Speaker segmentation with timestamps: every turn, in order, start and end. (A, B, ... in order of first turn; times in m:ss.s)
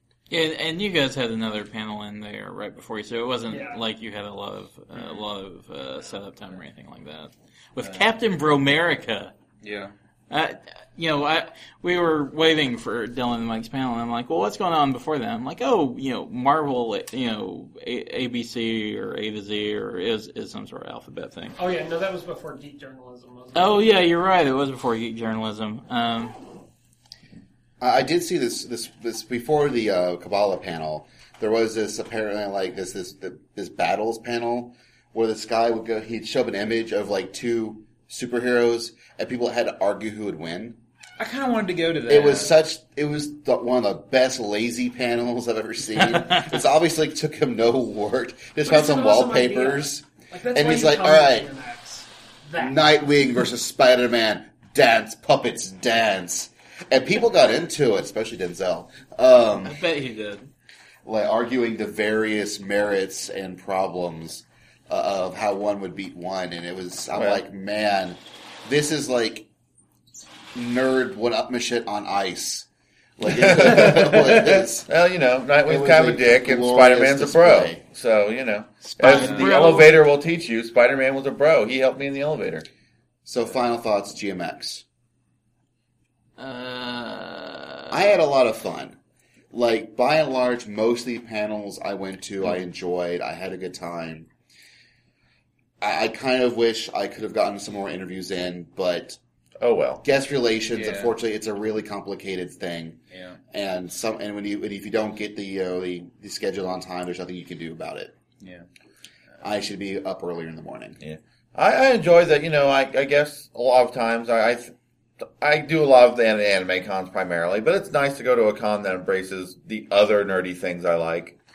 0:00.3-0:09.3 A
0:03.5-0:03.8 B
0:04.9-0:05.2 C
0:07.8-0:08.0 C
0:09.6-0:09.9 C
0:10.3-0:21.6 A
0:21.6-0:24.0 B
0:23.5-0:26.5 A
0:27.8-0:40.8 D
0:41.2-0:42.5 C
0:42.1-0:51.5 D
0:46.2-0:46.6 A
0:48.6-0:53.0 B
0:52.6-0:59.8 D
0:59.6-1:00.5 A
1:01.0-1:09.5 D
1:07.1-1:07.4 E
1:10.5-1:14.9 D
1:13.3-1:22.6 E
1:15.6-1:17.8 D
1:18.9-1:20.0 A
1:19.0-1:19.6 C
1:23.2-1:24.8 D
1:26.4-1:28.2 A
1:27.9-1:29.0 D
1:29.5-1:34.3 D
1:35.8-1:39.2 D
1:39.6-1:40.0 E
1:40.0-1:48.2 D
1:40.7-1:41.1 C
1:43.1-1:43.4 C
1:48.4-1:48.7 C
1:49.4-1:51.0 D
1:51.0-2:01.4 E